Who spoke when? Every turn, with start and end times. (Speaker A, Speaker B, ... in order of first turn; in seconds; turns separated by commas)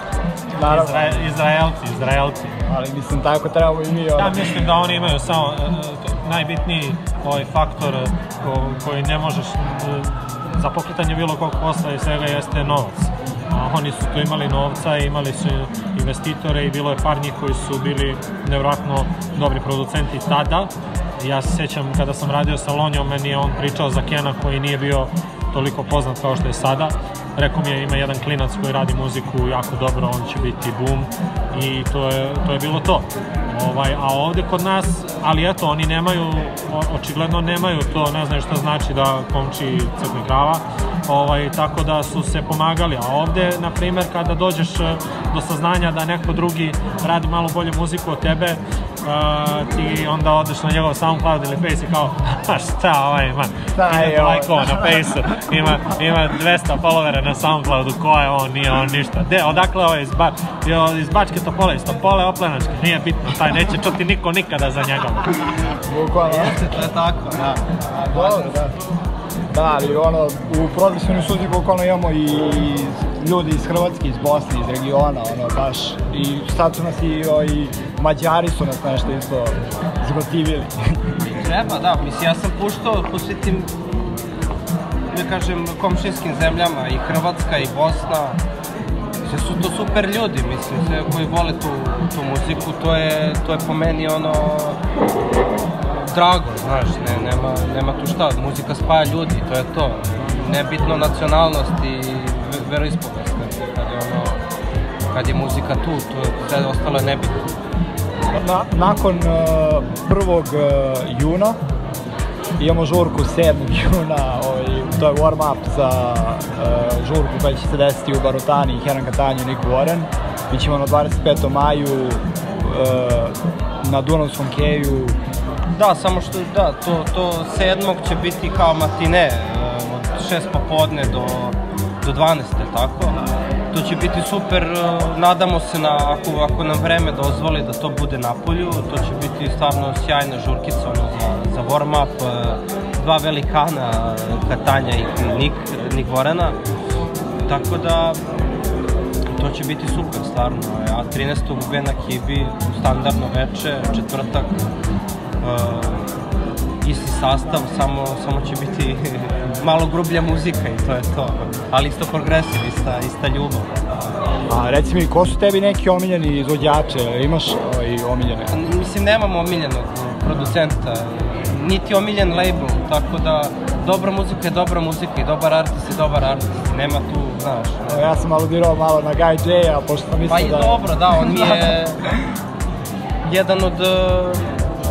Speaker A: 0.6-1.3, Speaker B: 0.6-2.5, Speaker A: 2.7-4.6, Speaker B: 4.2-65.4, Speaker A: 53.8-55.2, Speaker A: 65.8-66.8, Speaker C: 66.2-68.7, Speaker A: 68.1-68.7, Speaker A: 69.5-81.0, Speaker C: 81.3-83.7, Speaker C: 85.1-88.4, Speaker C: 89.2-94.8, Speaker C: 96.0-104.4, Speaker C: 105.1-107.5, Speaker A: 108.3-111.6, Speaker A: 112.6-125.2, Speaker C: 125.7-146.6, Speaker C: 147.4-148.2, Speaker C: 149.3-154.6, Speaker C: 155.4-156.1, Speaker C: 156.8-163.7, Speaker A: 164.5-168.6, Speaker C: 168.5-178.1, Speaker A: 177.9-181.7, Speaker C: 180.3-182.0, Speaker C: 183.2-184.5